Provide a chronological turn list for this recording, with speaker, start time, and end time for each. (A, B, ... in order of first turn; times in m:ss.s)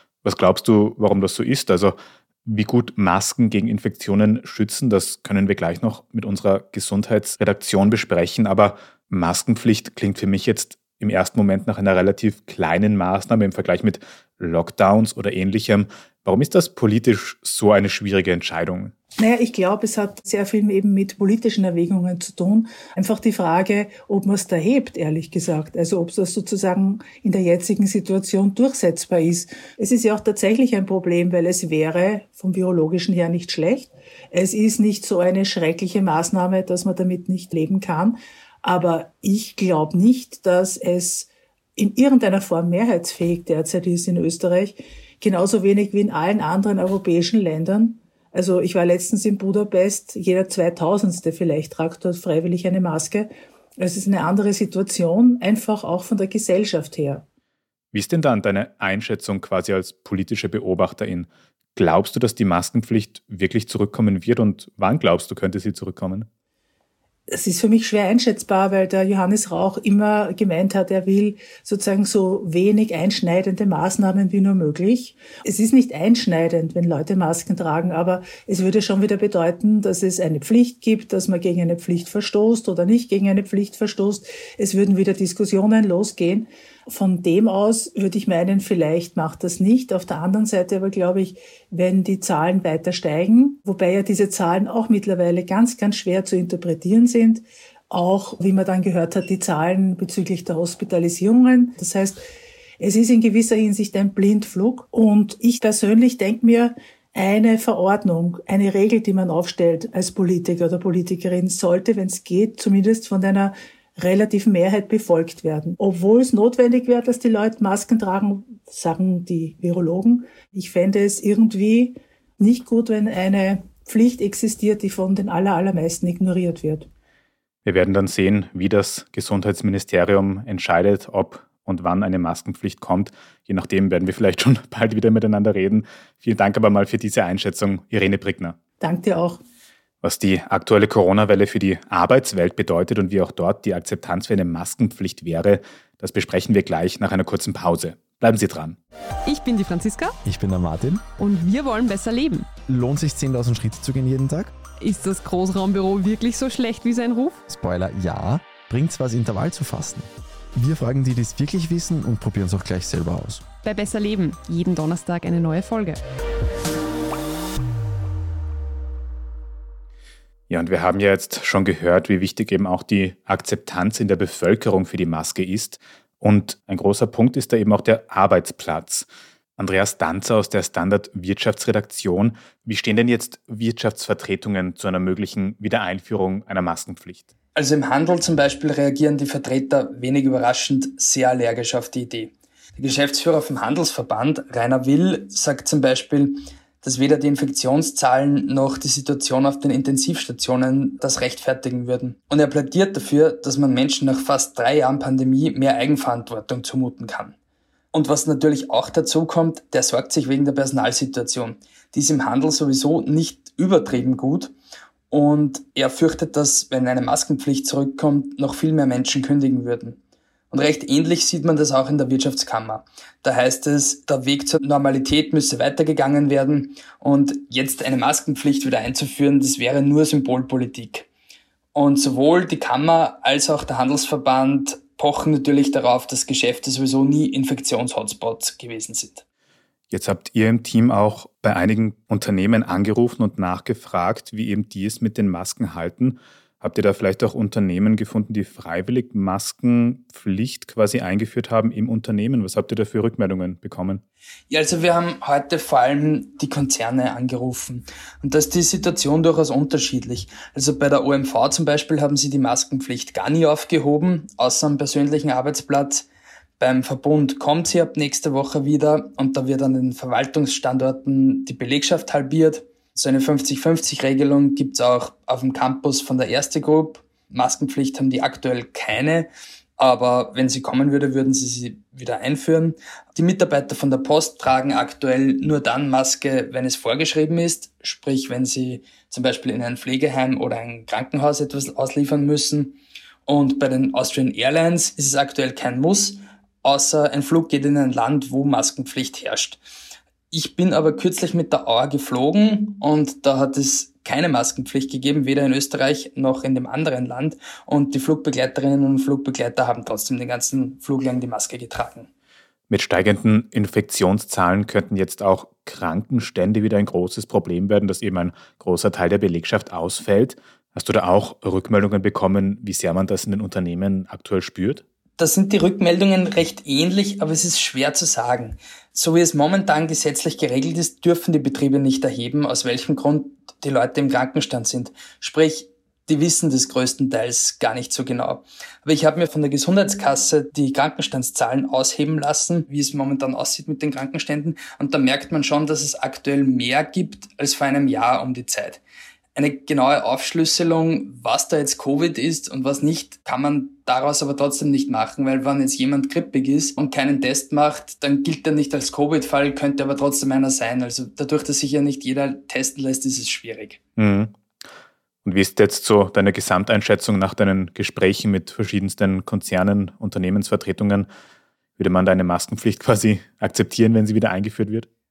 0:00.2-0:18.9 A
0:19.2-0:57.2 B
0:57.9-1:06.3 A
1:07.3-1:42.2 B
1:42.8-2:06.9 B
2:07.6-2:18.6 A
2:18.8-2:19.4 B
2:20.0-2:28.8 A
2:29.2-2:30.2 C
2:30.2-2:31.1 D
2:31.2-2:32.5 C
2:32.6-2:34.6 D
2:34.8-2:37.4 C
2:37.4-2:43.5 D
2:43.6-2:46.0 C
2:50.5-3:07.3 A
3:07.5-3:27.3 E
3:27.9-3:34.5 E
3:35.1-3:40.0 E
3:40.5-3:51.0 E
3:51.7-3:59.2 E
3:59.9-4:14.0 A
4:14.5-4:26.0 E
4:26.6-4:59.6 E
5:00.3-5:12.1 E
5:12.7-5:24.8 A
5:25.2-5:48.8 E
5:49.3-6:03.8 E
6:04.0-6:04.3 A
6:05.2-6:11.1 A
6:11.8-6:14.9 A